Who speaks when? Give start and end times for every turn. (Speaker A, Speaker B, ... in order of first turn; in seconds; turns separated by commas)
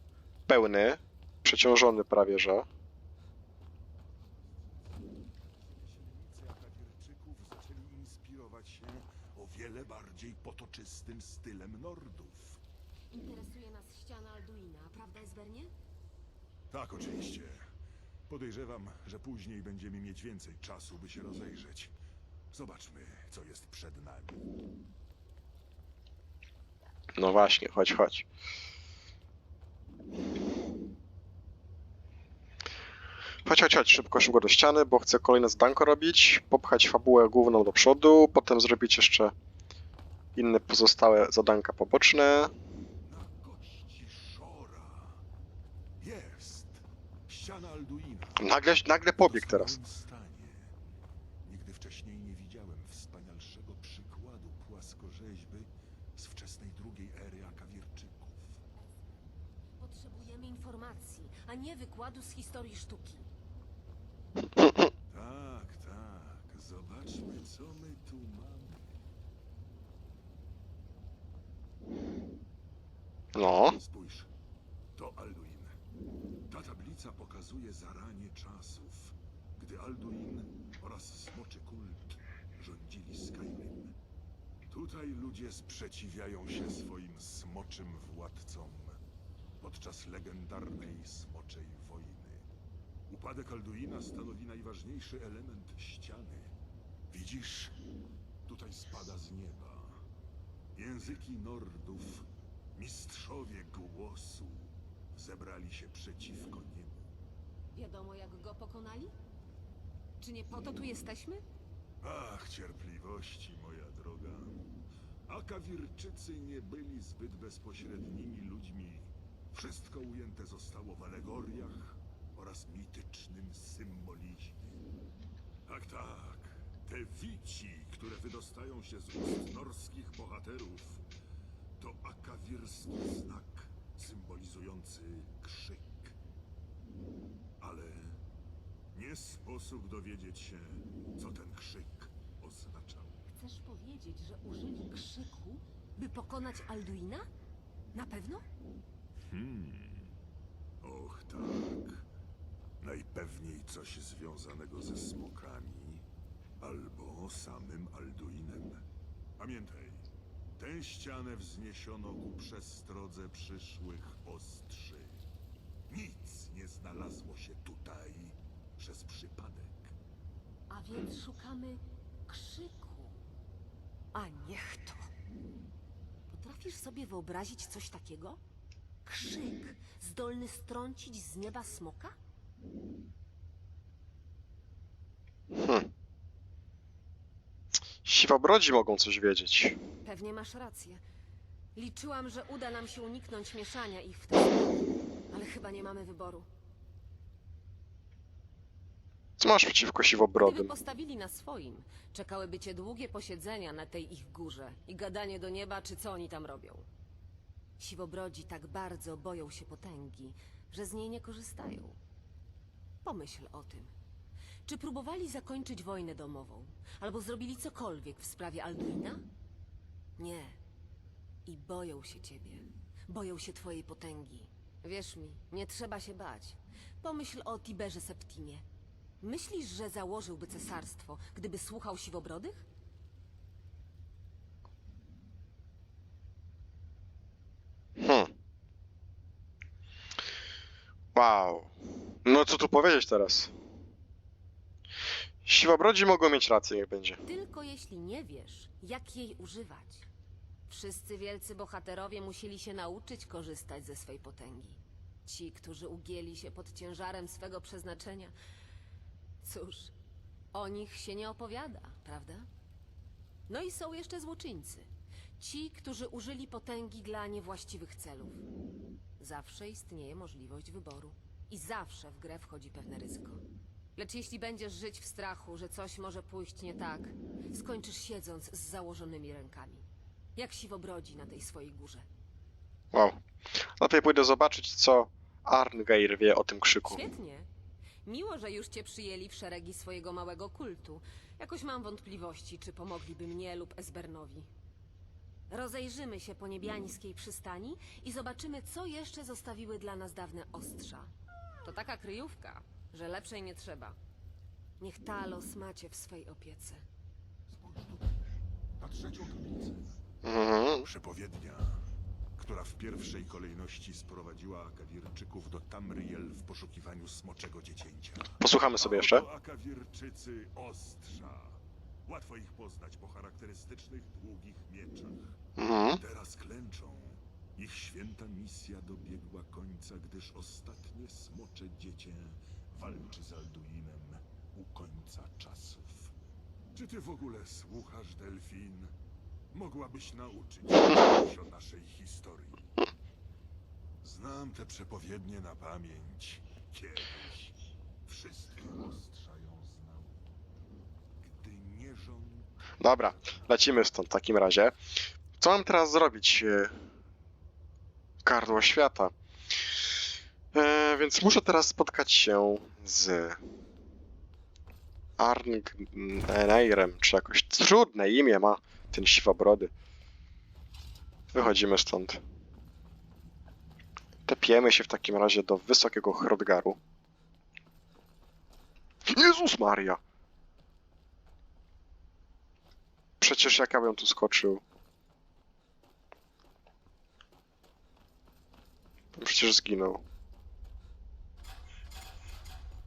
Speaker A: 0.5-2.7, Speaker B: 5.0-12.6, Speaker C: 13.1-15.7, Speaker B: 16.7-17.6, Speaker B: 18.3-21.9, Speaker B: 22.5-24.4, Speaker A: 27.2-28.2, Speaker A: 33.4-39.3, Speaker A: 40.3-42.5, Speaker B: 43.0-45.2, Speaker B: 46.0-50.7, Speaker A: 48.4-49.8, Speaker B: 51.4-58.6, Speaker C: 59.8-63.3, Speaker A: 64.5-64.9, Speaker B: 65.1-69.0, Speaker A: 73.3-73.8, Speaker B: 73.7-74.3, Speaker B: 74.9-75.8, Speaker B: 76.5-83.9, Speaker B: 84.7-89.0, Speaker B: 89.6-92.5, Speaker B: 93.1-96.5, Speaker B: 97.1-97.8, Speaker B: 98.5-100.0, Speaker B: 100.7-107.0, Speaker C: 107.7-109.1, Speaker C: 110.2-111.4, Speaker B: 112.0-114.6, Speaker B: 115.3-124.8, Speaker B: 125.7-131.0, Speaker B: 131.8-136.1, Speaker B: 137.6-138.2, Speaker B: 138.9-143.2, Speaker C: 143.3-147.3, Speaker C: 147.9-148.4, Speaker B: 149.3-150.2, Speaker B: 150.8-152.0, Speaker B: 152.8-156.0, Speaker B: 156.6-158.8, Speaker B: 159.4-160.1, Speaker B: 160.6-165.2, Speaker B: 165.9-169.9, Speaker C: 170.7-173.2, Speaker C: 174.1-175.1, Speaker C: 176.3-178.4, Speaker C: 179.0-182.1, Speaker A: 185.5-185.9, Speaker A: 188.0-189.8, Speaker C: 190.0-191.0, Speaker C: 191.7-196.5, Speaker A: 199.4-200.7, Speaker C: 200.4-206.9, Speaker C: 207.8-212.0, Speaker C: 213.0-213.9, Speaker C: 214.7-219.2, Speaker C: 220.2-220.6, Speaker C: 221.4-228.6, Speaker C: 229.2-232.6, Speaker A: 238.0-238.3, Speaker A: 241.1-243.5, Speaker A: 245.4-247.2, Speaker C: 247.2-250.1, Speaker C: 250.7-258.3, Speaker C: 259.4-259.9, Speaker C: 260.5-262.5, Speaker C: 263.5-268.4, Speaker C: 269.2-273.4, Speaker C: 273.9-279.8, Speaker C: 280.4-282.1, Speaker A: 282.9-287.1, Speaker C: 286.8-287.5, Speaker C: 288.0-294.5, Speaker C: 295.5-301.1, Speaker C: 301.6-303.9, Speaker C: 304.8-306.8, Speaker B: 307.5-308.1, Speaker B: 308.8-310.0, Speaker A: 310.2-310.9, Speaker B: 310.8-311.8, Speaker B: 312.4-325.4, Speaker A: 318.4-319.2, Speaker A: 325.6-326.0, Speaker B: 326.0-336.1, Speaker B: 336.7-338.9, Speaker B: 339.5-342.8, Speaker B: 344.0-350.2, Speaker B: 351.2-352.5, Speaker A: 352.8-354.8, Speaker A: 355.4-356.7, Speaker A: 358.2-359.1, Speaker A: 360.5-363.4, Speaker A: 365.2-369.7, Speaker A: 371.3-372.2, Speaker A: 374.2-376.8, Speaker A: 379.1-380.0, Speaker A: 383.2-384.6, Speaker A: 389.1-390.0